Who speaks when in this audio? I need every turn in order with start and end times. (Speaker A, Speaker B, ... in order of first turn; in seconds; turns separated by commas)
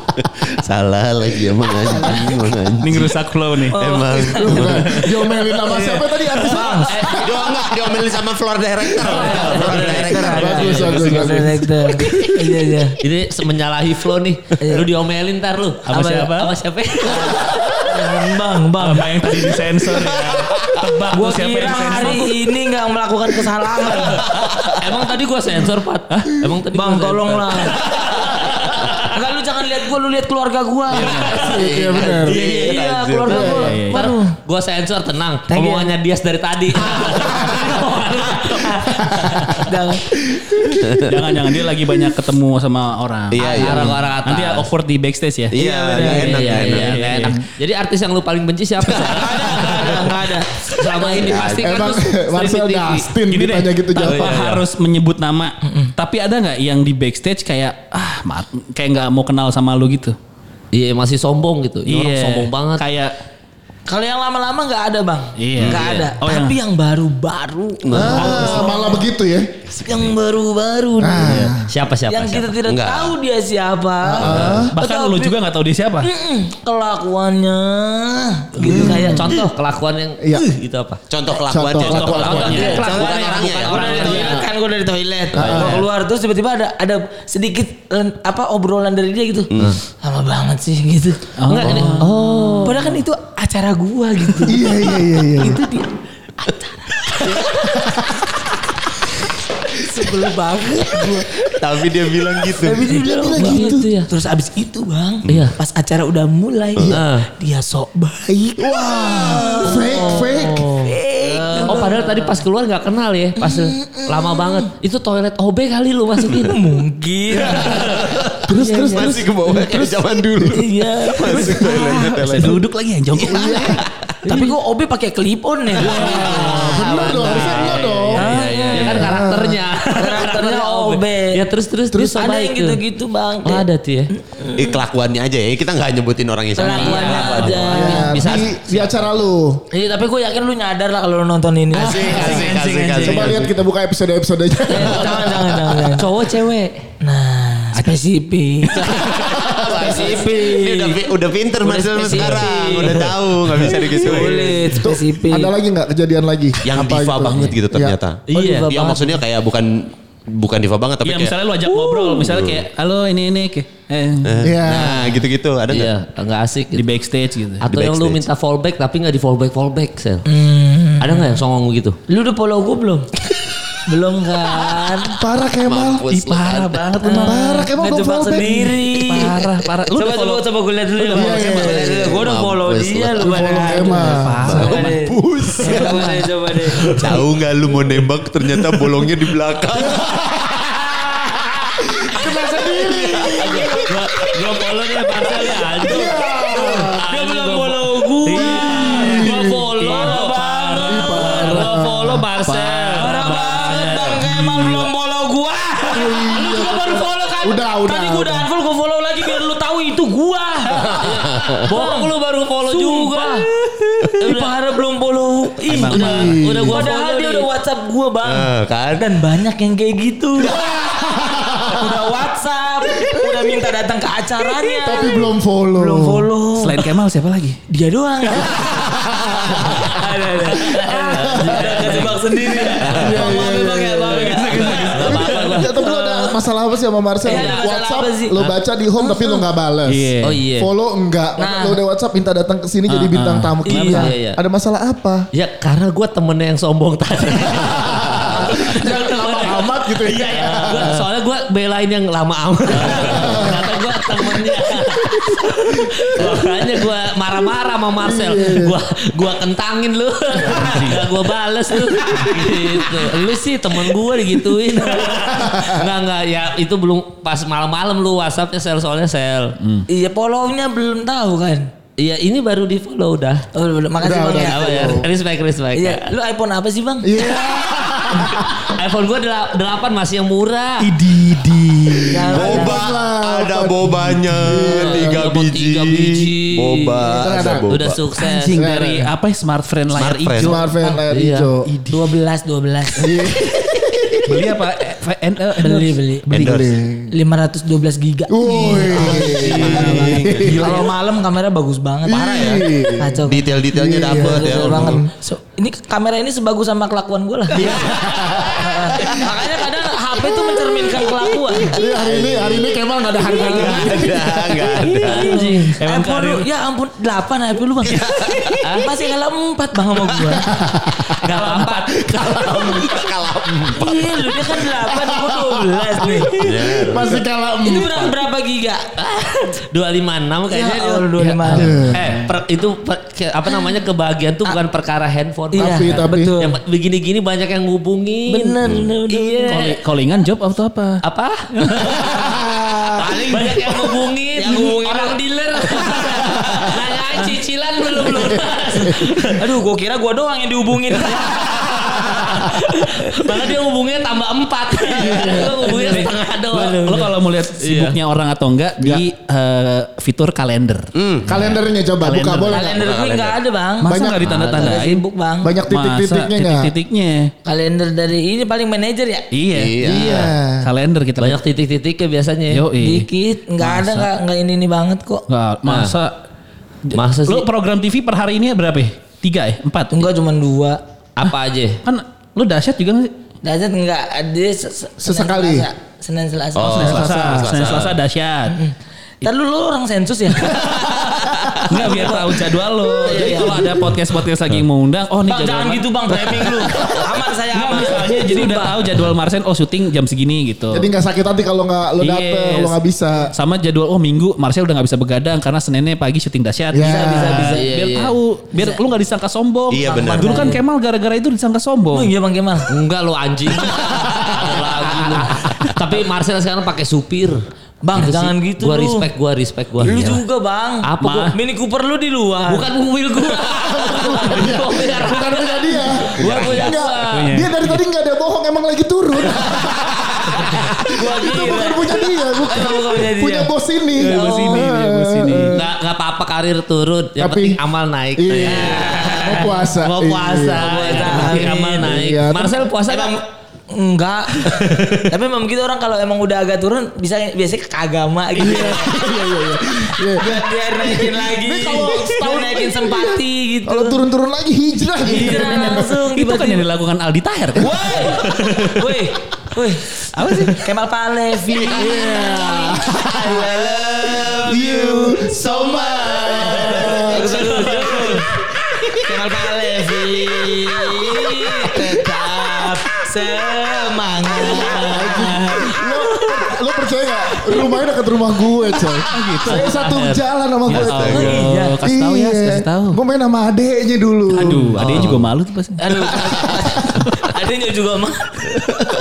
Speaker A: 0.2-3.2, Speaker B: 1.9-2.3, Speaker C: 2.8-3.8, Speaker B: 3.7-7.0, Speaker A: 3.7-4.8, Speaker D: 4.2-7.5, Speaker C: 4.6-5.3, Speaker C: 6.9-7.2, Speaker A: 7.0-11.0, Speaker E: 9.0-11.2, Speaker B: 9.1-13.0, Speaker C: 9.1-10.1, Speaker D: 10.2-11.8, Speaker E: 13.0-17.9, Speaker B: 14.6-14.8, Speaker C: 15.9-16.5, Speaker B: 15.9-16.3, Speaker B: 17.0-19.6, Speaker C: 18.8-22.4, Speaker B: 21.1-24.3, Speaker E: 21.8-22.3, Speaker C: 24.1-24.8, Speaker E: 24.2-29.0, Speaker C: 26.1-26.4, Speaker B: 26.7-28.4, Speaker B: 29.0-34.4, Speaker E: 30.9-39.7, Speaker C: 30.9-31.6, Speaker D: 31.3-32.5, Speaker A: 32.5-33.6, Speaker D: 33.3-33.6, Speaker C: 33.4-34.1, Speaker B: 35.5-35.9, Speaker C: 36.9-39.0, Speaker B: 39.6-40.2, Speaker D: 40.2-41.1, Speaker A: 40.8-41.2, Speaker C: 41.0-47.4, Speaker A: 43.3-44.0, Speaker E: 43.4-44.7, Speaker A: 45.5-47.3, Speaker E: 45.6-50.1, Speaker B: 45.9-46.4, Speaker A: 48.8-49.9, Speaker B: 49.1-51.5, Speaker E: 50.7-53.1, Speaker A: 51.2-51.8, Speaker D: 51.6-54.5, Speaker C: 53.3-60.2, Speaker E: 54.0-54.6, Speaker B: 55.6-55.9, Speaker E: 60.7-62.8, Speaker C: 61.9-63.1, Speaker B: 63.9-69.1, Speaker C: 65.4-66.6, Speaker E: 65.7-66.1, Speaker A: 67.8-68.7, Speaker D: 67.9-69.6, Speaker A: 69.7-70.1, Speaker B: 69.8-71.5, Speaker D: 71.0-71.7, Speaker E: 71.2-72.5, Speaker B: 72.1-75.4, Speaker A: 72.6-73.2, Speaker D: 74.0-74.7, Speaker A: 74.2-74.7, Speaker C: 74.7-76.1, Speaker B: 76.0-79.5, Speaker D: 78.6-79.2, Speaker C: 78.7-79.4, Speaker E: 78.7-81.0, Speaker D: 80.2-80.5, Speaker A: 81.1-84.4, Speaker D: 81.5-82.6, Speaker C: 81.8-82.8, Speaker E: 81.9-84.5, Speaker B: 82.4-92.0, Speaker A: 85.3-85.7, Speaker D: 85.4-85.8, Speaker E: 85.4-85.8, Speaker A: 89.5-89.8, Speaker C: 91.4-92.7, Speaker E: 91.5-92.9, Speaker A: 91.7-92.0, Speaker B: 92.6-98.0, Speaker D: 94.5-95.6, Speaker D: 97.8-98.2, Speaker B: 99.7-101.6, Speaker A: 101.6-102.9, Speaker B: 102.4-112.4, Speaker D: 102.7-103.9, Speaker E: 103.3-104.1, Speaker A: 105.3-105.5, Speaker E: 105.3-105.5, Speaker E: 106.9-107.2, Speaker D: 108.6-110.7, Speaker E: 109.6-116.5, Speaker B: 113.4-114.7, Speaker B: 116.2-119.2, Speaker A: 117.3-122.6, Speaker D: 118.4-120.5, Speaker B: 120.5-121.7, Speaker D: 121.3-121.8, Speaker C: 121.5-124.5, Speaker D: 123.2-123.8, Speaker A: 123.2-123.9, Speaker B: 124.2-127.5, Speaker D: 125.8-128.3, Speaker E: 125.8-132.8, Speaker C: 127.3-129.1, Speaker B: 128.2-129.0, Speaker D: 128.8-129.6, Speaker B: 129.9-131.4, Speaker B: 132.1-134.7, Speaker E: 133.4-134.1, Speaker A: 134.5-138.0, Speaker B: 136.6-138.2, Speaker E: 136.6-139.2, Speaker D: 137.7-139.6, Speaker B: 139.7-142.9, Speaker A: 141.7-143.5, Speaker D: 141.8-145.9, Speaker E: 142.0-143.3, Speaker B: 144.7-146.1, Speaker A: 144.8-145.2, Speaker E: 146.0-146.8, Speaker B: 147.0-149.2, Speaker C: 148.6-149.0, Speaker A: 148.9-154.7, Speaker D: 149.2-149.8, Speaker B: 149.7-151.1, Speaker B: 151.6-155.5, Speaker E: 151.9-153.1, Speaker D: 154.6-158.0, Speaker A: 156.6-161.3, Speaker C: 157.3-157.6, Speaker E: 158.3-159.2, Speaker C: 161.0-164.5, Speaker B: 161.7-162.2, Speaker A: 162.2-162.6, Speaker A: 164.2-165.9, Speaker D: 164.4-165.1, Speaker E: 165.7-166.9, Speaker C: 166.7-167.7, Speaker E: 167.6-170.3, Speaker A: 167.7-168.2, Speaker B: 170.3-171.4, Speaker E: 171.0-172.0, Speaker B: 172.1-173.1, Speaker B: 173.9-175.2, Speaker D: 175.1-176.1, Speaker A: 175.6-176.9, Speaker C: 176.1-177.7, Speaker B: 177.0-179.4, Speaker D: 177.1-178.8, Speaker C: 178.8-180.5, Speaker B: 179.9-186.9, Speaker D: 181.1-182.2, Speaker A: 181.3-183.7, Speaker D: 183.2-184.7, Speaker C: 183.7-185.0, Speaker A: 184.4-186.2, Speaker C: 185.6-186.2, Speaker A: 186.8-190.2, Speaker D: 189.8-193.9, Speaker E: 193.2-200.4, Speaker D: 195.4-197.1, Speaker B: 196.6-201.5, Speaker C: 198.3-199.3, Speaker D: 198.4-199.7, Speaker C: 199.8-201.8, Speaker D: 200.8-202.2, Speaker E: 201.1-204.2, Speaker C: 202.3-204.9, Speaker B: 203.0-212.1, Speaker D: 205.9-208.5, Speaker A: 210.8-211.7, Speaker E: 210.9-213.5, Speaker B: 212.7-213.5, Speaker B: 214.1-220.7, Speaker E: 214.2-214.6, Speaker C: 215.7-216.4, Speaker E: 215.9-217.5, Speaker D: 215.9-216.9, Speaker A: 218.2-219.1, Speaker D: 220.4-222.0, Speaker B: 221.6-226.9, Speaker D: 223.0-223.5, Speaker D: 224.6-226.3, Speaker C: 226.6-227.6, Speaker B: 227.7-236.4, Speaker D: 228.4-229.9, Speaker D: 230.5-232.0, Speaker E: 230.9-233.1, Speaker D: 232.8-234.4, Speaker C: 234.1-235.6, Speaker E: 234.8-235.7, Speaker D: 235.0-245.3, Speaker B: 237.2-238.4, Speaker E: 237.3-237.6, Speaker B: 239.0-239.4, Speaker C: 239.9-240.4, Speaker E: 240.2-240.7, Speaker B: 241.4-241.8, Speaker C: 242.9-243.6, Speaker B: 243.7-244.1, Speaker E: 243.7-244.4, Speaker E: 245.3-269.6, Speaker D: 247.4-251.0, Speaker D: 252.8-254.3, Speaker D: 255.8-256.6, Speaker D: 258.0-258.8, Speaker C: 260.5-261.1, Speaker D: 265.2-265.9, Speaker C: 269.6-269.9, Speaker B: 269.9-271.7, Speaker E: 272.0-273.5, Speaker B: 273.5-275.0, Speaker D: 274.0-275.1, Speaker E: 274.4-276.1, Speaker B: 275.7-277.5, Speaker D: 277.0-278.7, Speaker E: 278.2-280.9, Speaker D: 280.9-285.2, Speaker C: 281.1-282.1, Speaker B: 282.1-282.8, Speaker A: 282.3-288.0, Speaker E: 284.7-288.6, Speaker D: 287.2-287.7, Speaker C: 288.2-290.6, Speaker D: 288.5-289.1, Speaker A: 289.9-290.6, Speaker D: 290.4-291.7, Speaker E: 291.1-291.5, Speaker C: 291.6-292.1, Speaker B: 291.9-294.2, Speaker D: 293.0-294.3, Speaker C: 294.3-296.7, Speaker B: 295.6-296.3, Speaker A: 296.3-296.8, Speaker D: 296.3-297.1, Speaker B: 297.1-303.5, Speaker D: 298.3-300.9, Speaker C: 299.1-300.6, Speaker A: 299.6-300.5, Speaker D: 302.1-305.1, Speaker A: 303.2-305.0, Speaker B: 304.0-311.8, Speaker D: 307.5-309.3, Speaker E: 307.6-308.1, Speaker D: 311.6-314.8, Speaker A: 311.8-312.7, Speaker B: 313.3-314.0, Speaker A: 313.4-315.4, Speaker B: 314.6-320.7, Speaker E: 315.0-315.8, Speaker C: 315.2-316.5, Speaker A: 317.9-318.6, Speaker E: 318.6-318.9, Speaker D: 320.4-321.2, Speaker E: 321.1-323.3, Speaker D: 321.9-322.8, Speaker A: 322.6-324.1, Speaker B: 323.8-326.4, Speaker D: 324.3-328.2, Speaker A: 326.4-327.2, Speaker B: 327.6-328.9, Speaker E: 329.0-339.8, Speaker B: 330.5-331.9, Speaker D: 331.5-332.1, Speaker C: 332.0-332.3, Speaker B: 333.5-333.7, Speaker B: 335.5-336.6, Speaker D: 335.6-336.3, Speaker B: 338.3-339.7, Speaker A: 338.6-338.9, Speaker C: 339.5-341.0, Speaker E: 341.0-342.4, Speaker D: 342.1-343.0, Speaker B: 342.7-346.8, Speaker E: 343.0-349.4, Speaker B: 349.3-351.9, Speaker E: 351.2-358.0, Speaker C: 355.1-362.6, Speaker D: 355.1-355.4, Speaker B: 355.1-356.1, Speaker D: 358.8-359.1, Speaker A: 360.9-361.4, Speaker D: 361.3-362.8, Speaker B: 362.5-365.6, Speaker A: 362.7-363.4, Speaker C: 363.8-365.0, Speaker D: 363.9-364.4, Speaker D: 365.4-366.7, Speaker C: 365.7-367.3, Speaker B: 367.4-369.3, Speaker C: 369.3-371.4, Speaker A: 369.5-370.3, Speaker D: 369.8-370.7, Speaker E: 369.9-370.3, Speaker E: 371.2-372.6, Speaker C: 372.5-374.1, Speaker B: 372.8-375.3, Speaker C: 375.3-376.1, Speaker E: 375.6-375.9, Speaker C: 376.9-380.1, Speaker E: 376.9-377.5, Speaker B: 379.9-380.8, Speaker E: 381.2-381.8, Speaker C: 381.8-383.1, Speaker B: 383.4-387.1, Speaker D: 385.0-385.7, Speaker A: 386.6-388.0, Speaker C: 386.7-388.6, Speaker D: 386.8-387.6, Speaker B: 388.5-393.9, Speaker C: 390.4-400.9, Speaker B: 395.2-398.9, Speaker D: 400.7-403.3, Speaker C: 402.0-402.8, Speaker C: 403.3-412.1, Speaker D: 406.7-407.5, Speaker B: 406.8-407.7, Speaker E: 407.6-408.1, Speaker B: 408.6-408.8, Speaker A: 409.7-410.6, Speaker B: 409.8-410.6, Speaker B: 411.9-412.7, Speaker E: 412.7-417.4, Speaker D: 414.1-414.4, Speaker C: 414.9-415.8, Speaker B: 417.8-419.1, Speaker E: 417.9-420.2, Speaker B: 419.8-422.7, Speaker E: 420.8-421.3, Speaker C: 421.0-421.4, Speaker E: 422.5-427.3, Speaker D: 423.5-435.6, Speaker A: 426.2-426.7, Speaker C: 427.1-427.8, Speaker B: 430.9-434.7, Speaker C: 434.0-435.6, Speaker E: 435.5-443.2, Speaker D: 437.2-437.6, Speaker D: 438.2-442.7, Speaker B: 438.4-439.6, Speaker B: 440.6-442.0, Speaker B: 442.9-449.2, Speaker E: 444.4-445.0, Speaker D: 448.4-456.0, Speaker B: 450.0-454.0, Speaker B: 455.0-456.7, Speaker C: 455.3-458.9, Speaker B: 457.6-465.2, Speaker C: 460.0-460.7, Speaker A: 461.6-462.0, Speaker D: 461.7-467.7, Speaker A: 463.3-467.2, Speaker E: 466.4-468.2, Speaker B: 466.7-468.3, Speaker B: 468.9-475.8, Speaker D: 474.4-485.0, Speaker C: 479.1-479.7, Speaker E: 479.5-480.2, Speaker C: 480.7-483.0, Speaker A: 480.7-481.4, Speaker B: 481.1-481.8, Speaker C: 484.3-486.2, Speaker A: 484.8-485.2, Speaker E: 484.8-485.2, Speaker B: 485.8-488.7, Speaker D: 486.2-487.0, Speaker C: 487.0-487.3